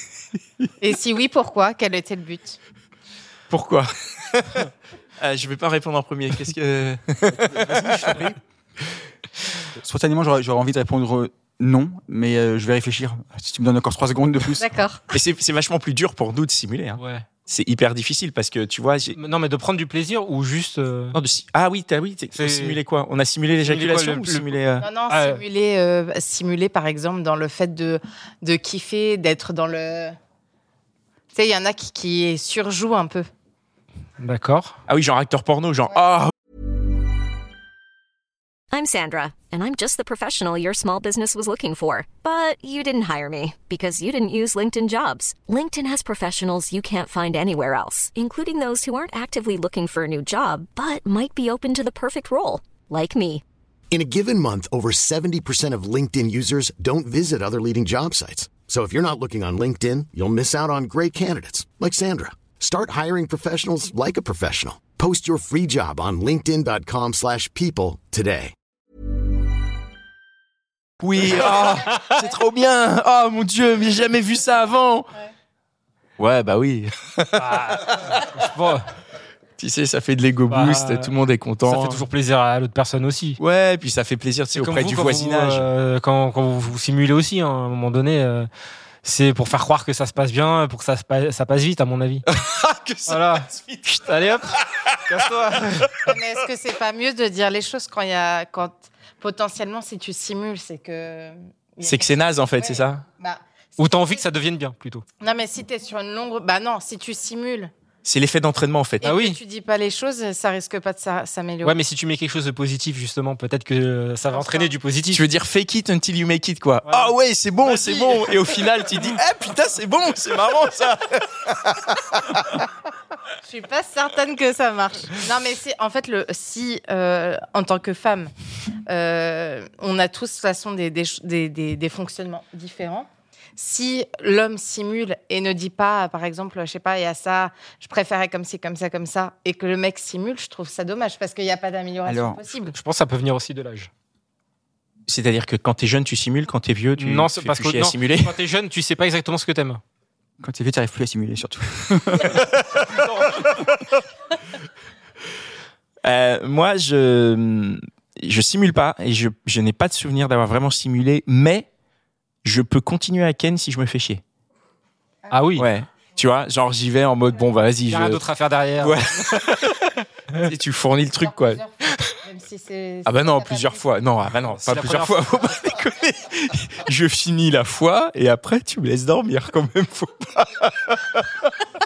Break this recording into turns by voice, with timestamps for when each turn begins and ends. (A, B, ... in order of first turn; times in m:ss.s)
0:00.8-0:02.6 A
0:03.5-0:04.7 B
0:05.2-0:08.3 B
0:07.3-0:08.4 C
0:09.7-0:14.7 C
0:14.6-0:15.0 A
0:15.1-0:19.2 B
0:17.0-0:17.2 D
0:19.1-0:21.2 D
0:21.1-0:24.9 B
0:22.3-0:22.8 D
0:23.6-0:24.5 D
0:24.8-0:30.2 A
0:25.1-0:25.4 D
0:31.3-0:33.3 A
0:34.2-0:34.7 D
0:34.9-0:36.3 B
0:38.7-0:53.4 E
0:53.9-1:08.5 F
1:11.0-1:15.1 B
1:16.2-1:18.2 B
1:17.3-1:18.8 D
1:19.6-1:22.0 B
1:20.5-1:21.1 D
1:21.6-1:23.4 D
1:23.4-1:25.7 B
1:24.5-1:28.5 D
1:29.0-1:32.2 D
1:32.3-1:34.0 B
1:33.1-1:34.5 D
1:34.7-1:35.0 B
1:35.0-1:36.1 D
1:36.0-1:44.2 A
1:41.8-1:43.0 B
1:43.8-1:45.0 D
1:45.2-1:47.7 A
1:48.0-1:49.1 B
1:49.0-1:51.8 A
1:49.0-1:49.4 D
1:51.6-1:55.2 D
1:54.3-1:54.7 A
1:55.1-2:02.6 B
1:56.8-1:58.6 D
2:03.4-2:08.3 A
2:08.9-2:22.8 A
2:22.0-2:22.4 C
2:22.7-2:23.9 D
2:25.1-2:28.3 B
2:27.0-2:29.8 D
2:30.4-2:32.4 C
2:36.0-2:41.7 B
2:42.4-2:44.2 B
2:45.3-2:45.6 D
2:45.6-2:48.2 B
2:47.9-2:49.1 D
2:48.8-2:52.1 B
2:51.2-2:53.8 A
2:53.0-3:01.5 B
2:54.5-2:55.3 D